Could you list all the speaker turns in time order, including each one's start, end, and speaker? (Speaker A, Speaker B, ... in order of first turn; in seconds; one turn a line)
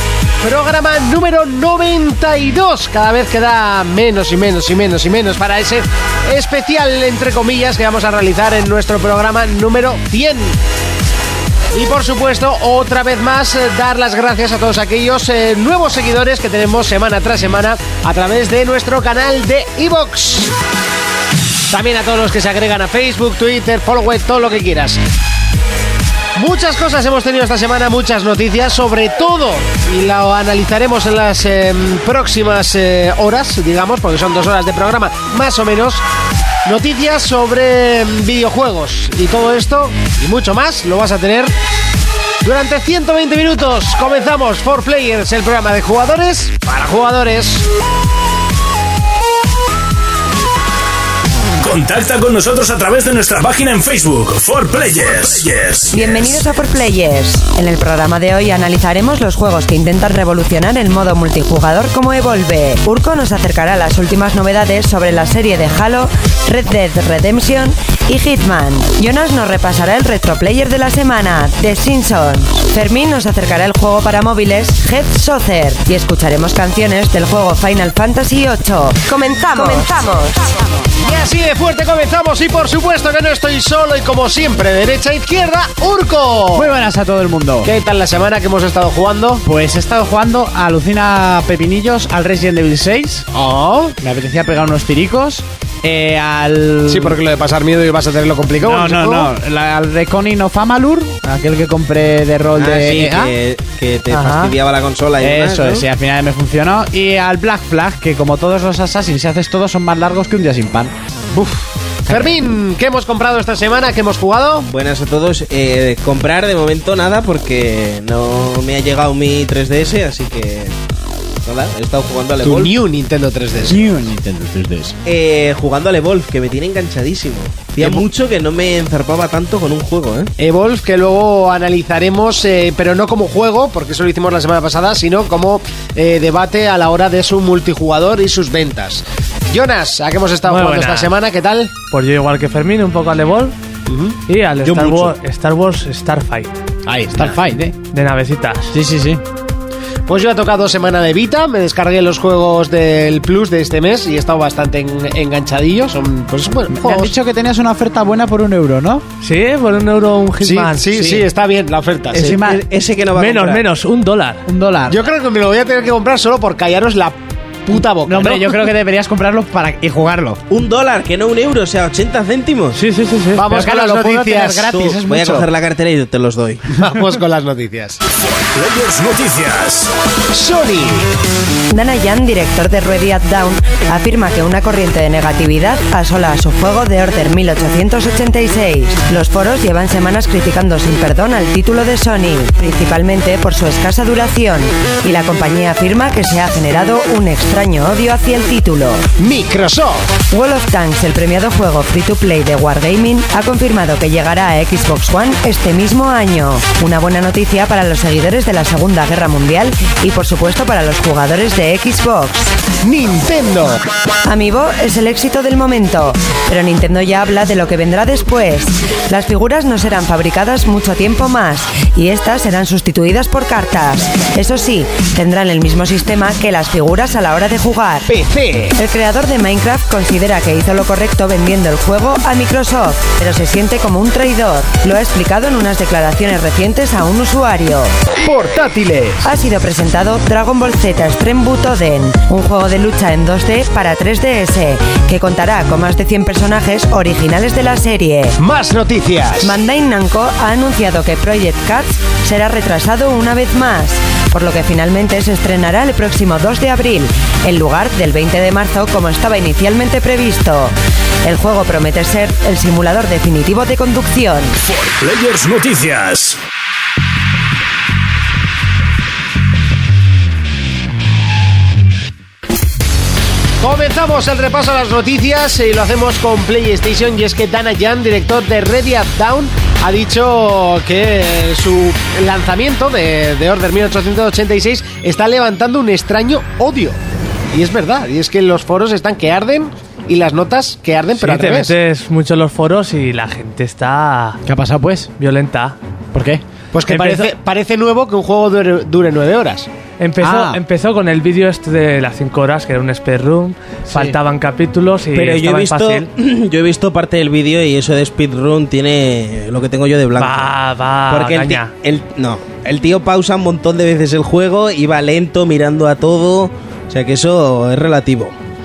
Speaker A: 0.4-10.6
Speaker A: 11.7-20.5
Speaker A: 21.7-25.0
Speaker A: 26.4-36.0
Speaker A: 36.6-41.5
Speaker A: 42.4-47.7
Speaker B: 51.6-56.3
Speaker C: 55.9-80.5
Speaker A: 81.0-86.8
Speaker D: 86.5-87.7
Speaker A: 87.6-89.4
Speaker D: 89.4-93.3
Speaker A: 93.3-93.9
Speaker D: 94.0-97.2
Speaker A: 96.9-99.3
Speaker D: 98.6-103.3
Speaker E: 102.5-105.9
Speaker F: 104.1-104.5
Speaker D: 105.2-110.9
Speaker A: 111.3-114.7
Speaker D: 112.1-112.3
Speaker E: 114.7-120.8
Speaker E: 121.4-122.7
Speaker A: 122.4-123.8
Speaker D: 123.7-125.0
Speaker E: 125.0-130.3
Speaker A: 130.4-141.7
Speaker F: 140.4-141.1
Speaker F: 141.9-143.6
Speaker A: 143.9-144.2
Speaker F: 144.3-146.5
Speaker E: 144.6-145.2
Speaker D: 146.9-147.7
Speaker F: 147.9-148.7
Speaker D: 148.7-149.2
Speaker A: 150.1-157.1
Speaker D: 156.7-159.0
Speaker F: 159.2-161.0
Speaker A: 160.4-162.3
Speaker E: 162.1-163.6
Speaker D: 162.1-162.6
Speaker F: 163.1-164.4
Speaker D: 164.4-165.0
Speaker A: 164.9-168.7
Speaker D: 168.0-170.4
Speaker E: 170.5-172.8
Speaker F: 172.7-173.6
Speaker A: 173.3-174.7
Speaker D: 173.5-175.5
Speaker E: 174.7-176.6
Speaker A: 176.7-178.0
Speaker B: 178.3-179.9
Speaker A: 180.3-181.1
Speaker C: 181.7-199.1
Speaker A: 199.2-200.1
Speaker C: 200.3-212.5
Speaker A: 212.8-213.8
Speaker C: 214.2-228.1
Speaker A: 228.1-228.8
Speaker C: 228.8-238.0
Speaker A: 238.2-239.2
Speaker C: 239.2-248.4
Speaker A: 248.4-249.6
Speaker C: 249.4-264.5
Speaker B: 264.6-266.4
Speaker A: 273.6-287.0
Speaker A: 287.5-291.7
Speaker F: 291.2-294.4
Speaker D: 294.4-295.1
Speaker F: 295.2-295.8
Speaker D: 296.1-296.4
Speaker A: 296.7-299.7
Speaker F: 296.9-297.3
Speaker F: 300.0-306.1
Speaker D: 300.2-300.6
Speaker D: 303.9-304.1
Speaker E: 305.1-310.6
Speaker F: 310.2-311.7
Speaker E: 311.1-318.3